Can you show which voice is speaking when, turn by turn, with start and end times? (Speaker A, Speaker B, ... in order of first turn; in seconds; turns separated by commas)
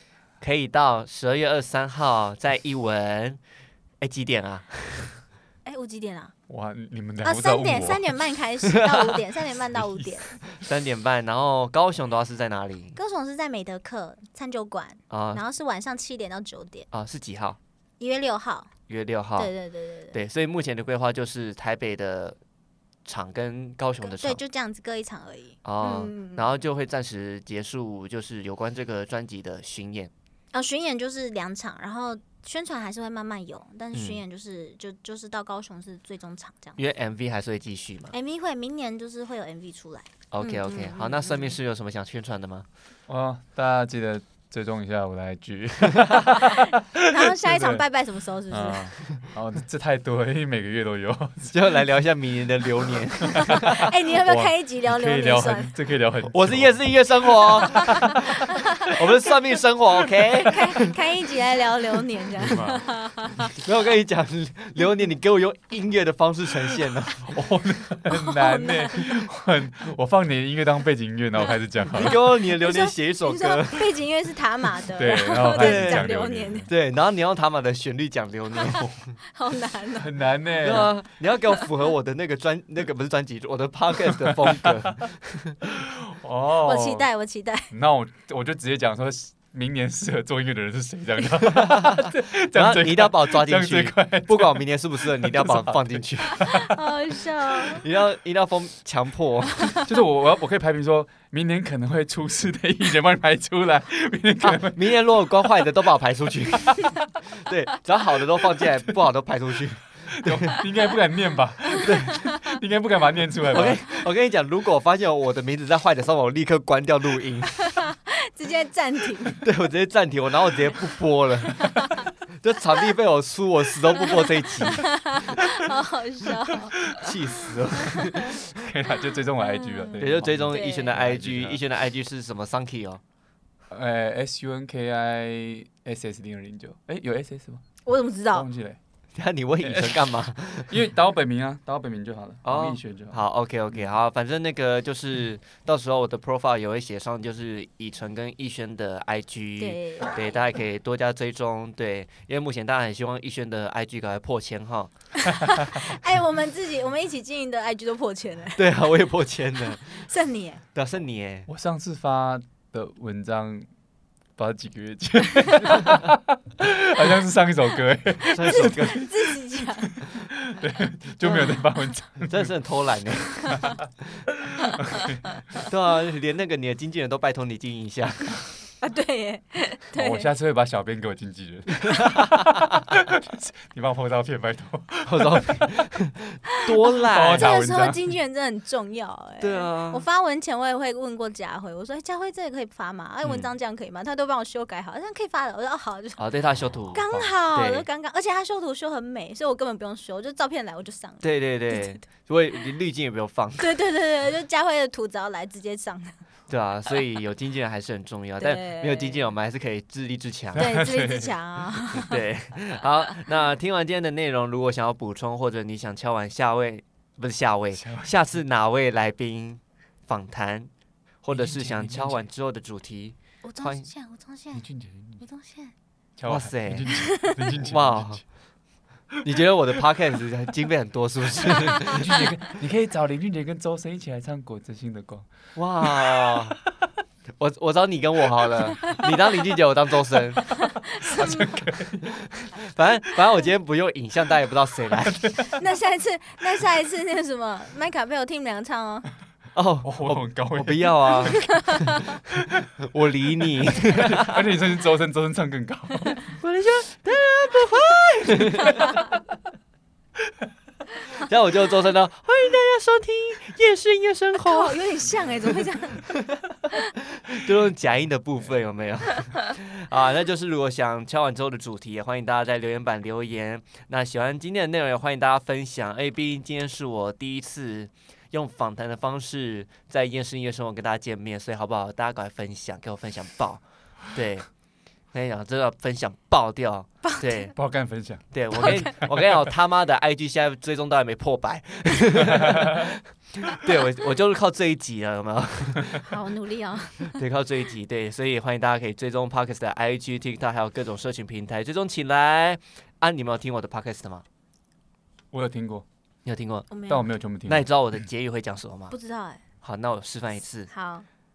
Speaker A: 0.4-3.4, Speaker A: 4.0-5.2, Speaker B: 5.6-6.3, Speaker C: 6.5-8.1, Speaker B: 7.2-10.4, Speaker A: 10.5-12.9, Speaker B: 12.9-16.9, Speaker A: 15.1-15.4, Speaker A: 16.9-17.6, Speaker B: 18.0-18.7, Speaker A: 18.9-19.5, Speaker B: 19.4-20.2, Speaker A: 20.1-22.4, Speaker A: 23.1-24.4, Speaker B: 24.0-26.5, Speaker A: 25.6-30.1, Speaker B: 30.5-36.8, Speaker A: 33.9-34.2, Speaker A: 36.8-38.1, Speaker B: 38.1-41.6, Speaker A: 40.3-42.7, Speaker C: 43.1-47.8, Speaker B: 46.4-49.0, Speaker C: 48.5-51.6, Speaker A: 51.5-53.9, Speaker C: 53.3-53.6, Speaker B: 53.5-55.7, Speaker C: 54.3-56.8, Speaker A: 56.3-58.3, Speaker B: 57.7-59.3, Speaker C: 57.8-58.4, Speaker A: 58.8-60.9, Speaker B: 60.5-63.5, Speaker C: 62.4-62.9, Speaker A: 63.5-67.3, Speaker C: 67.2-72.2, Speaker B: 68.1-69.1, Speaker A: 71.9-74.0, Speaker B: 72.0-76.7, Speaker C: 75.0-76.7, Speaker A: 75.5-76.1, Speaker A: 76.7-79.0, Speaker B: 78.7-80.9, Speaker C: 80.0-80.9, Speaker A: 80.6-85.7, Speaker C: 84.1-85.0, Speaker C: 85.7-87.1, Speaker B: 86.6-87.7, Speaker C: 87.7-96.7, Speaker A: 91.4-96.5, Speaker B: 96.3-97.8, Speaker A: 97.7-99.8, Speaker C: 99.8-105.7, Speaker A: 104.4-110.6, Speaker C: 106.5-107.0, Speaker C: 110.1-113.8, Speaker B: 111.8-112.5, Speaker A: 111.8-112.2, Speaker A: 113.5-117.7, Speaker B: 117.6-119.4, Speaker A: 119.4-121.9, Speaker B: 121.5-122.1, Speaker A: 122.4-125.5, Speaker B: 124.0-128.4, Speaker A: 126.9-128.4, Speaker C: 128.5-131.6, Speaker B: 129.4-130.9, Speaker A: 130.0-133.0, Speaker C: 133.7-137.6, Speaker B: 137.9-138.5, Speaker C: 138.3-138.8, Speaker A: 139.2-140.8, Speaker C: 139.6-140.1, Speaker C: 140.7-143.2, Speaker A: 142.4-154.9, Speaker B: 149.6-150.5, Speaker B: 155.2-158.7, Speaker A: 158.6-160.0, Speaker B: 159.6-160.6, Speaker A: 160.7-161.5, Speaker C: 161.5-163.7, Speaker C: 164.4-169.1, Speaker A: 168.2-169.1, Speaker B: 168.4-169.9, Speaker C: 169.8-172.6, Speaker B: 171.3-171.5, Speaker A: 172.2-174.3, Speaker B: 173.4-173.7, Speaker C: 173.5-173.8, Speaker C: 174.3-175.2, Speaker B: 174.6-175.6, Speaker A: 175.7-178.4, Speaker B: 178.8-180.3, Speaker C: 179.9-185.9, Speaker A: 181.8-182.5, Speaker A: 185.1-187.5, Speaker C: 187.1-188.1, Speaker B: 187.3-196.2, Speaker A: 189.4-190.0, Speaker A: 193.2-193.5, Speaker A: 196.2-197.9, Speaker B: 196.9-202.0, Speaker A: 201.2-203.8, Speaker B: 203.6-206.2, Speaker A: 206.5-210.7, Speaker B: 208.4-209.3, Speaker C: 210.5-211.3, Speaker B: 210.6-212.2, Speaker A: 211.9-220.7, Speaker C: 217.7-218.1, Speaker A: 221.2-223.9, Speaker C: 221.3-222.2, Speaker B: 223.4-224.7, Speaker C: 224.5-225.2, Speaker B: 225.2-225.7, Speaker C: 226.2-228.2, Speaker A: 226.3-226.9, Speaker B: 226.9-227.5, Speaker A: 227.6-228.2, Speaker A: 229.2-232.1, Speaker C: 231.8-235.3, Speaker A: 235.6-236.6, Speaker C: 235.8-236.6, Speaker A: 237.4-240.4, Speaker B: 238.8-239.1, Speaker B: 240.5-241.6, Speaker C: 241.0-242.2, Speaker A: 242.1-245.3, Speaker C: 245.1-245.4, Speaker B: 245.5-249.1, Speaker A: 249.6-251.8, Speaker C: 249.8-251.3, Speaker B: 251.3-252.1, Speaker A: 252.8-254.5, Speaker C: 253.9-256.3, Speaker A: 256.4-259.0, Speaker B: 258.7-259.0, Speaker A: 261.1-264.8, Speaker B: 264.4-266.2, Speaker A: 267.1-284.5, Speaker A: 285.1-287.5, Speaker B: 287.0-287.5, Speaker C: 287.6-289.5, Speaker A: 288.3-296.1, Speaker B: 288.6-289.0, Speaker C: 292.4-292.9, Speaker B: 296.0-297.2, Speaker A: 297.1-304.2, Speaker C: 305.3-305.9, Speaker A: 306.2-306.7, Speaker B: 306.7-307.1, Speaker C: 306.9-307.7, Speaker A: 307.4-308.9, Speaker B: 308.9-309.4, Speaker A: 309.6-310.7, Speaker B: 310.7-311.1